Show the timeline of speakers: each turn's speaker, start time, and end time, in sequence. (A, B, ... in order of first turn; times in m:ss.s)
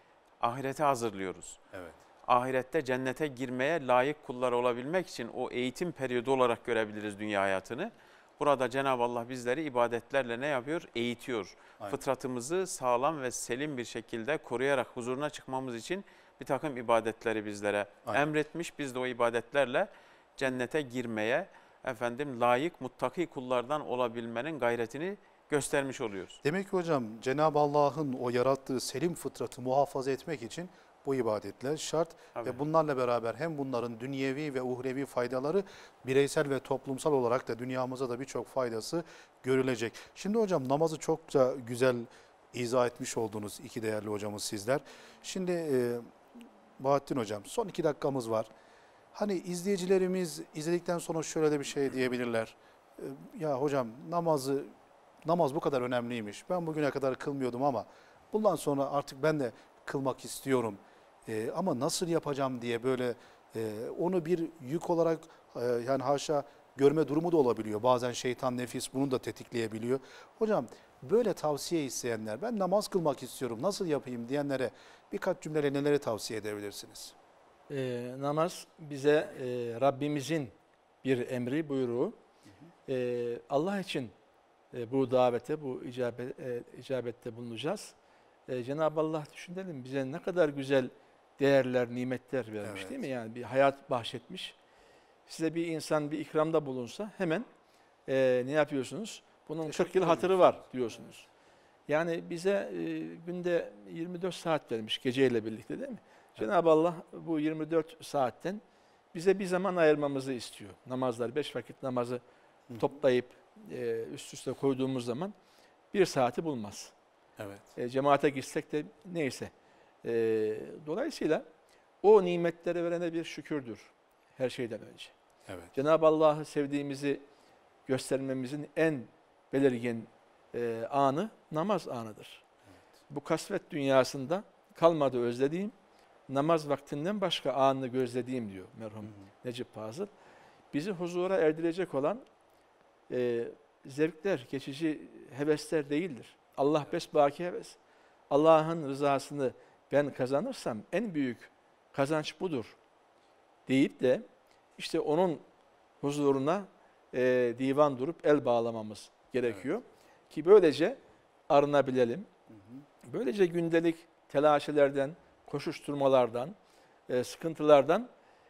0:00.4-0:01.6 A
0:01.7-0:02.0 B
0:02.3-0:26.4 A
0:26.4-0:46.1 B
0:46.8-0:48.5 B
0:49.1-0:54.7 B
0:55.2-1:17.2 B
1:17.7-1:22.2 C
1:22.9-1:24.1 C
1:24.7-1:27.9 C
1:28.5-1:34.6 C
1:32.6-1:33.0 B
1:35.3-1:37.5 C
1:38.1-1:41.3 C
1:39.7-1:41.1 B
1:41.9-1:48.6 C
1:49.1-1:52.2 C
1:52.8-1:55.4 C
1:55.9-1:56.9 C
1:57.4-1:57.7 B
1:57.8-1:59.5 C
2:00.0-2:01.5 C
2:02.0-2:05.1 C
2:05.5-2:05.7 B
2:05.7-2:07.2 C
2:07.9-2:12.4 C
2:13.1-2:15.7 C
2:16.3-2:20.1 C
2:20.7-2:22.2 C
2:23.1-2:27.8 C
2:28.3-2:32.8 C
2:33.7-2:34.3 C
2:34.8-2:35.4 C
2:36.0-2:41.0 C
2:41.5-2:42.3 C
2:42.5-2:42.8 B
2:43.0-2:46.6 C
2:47.1-2:48.1 C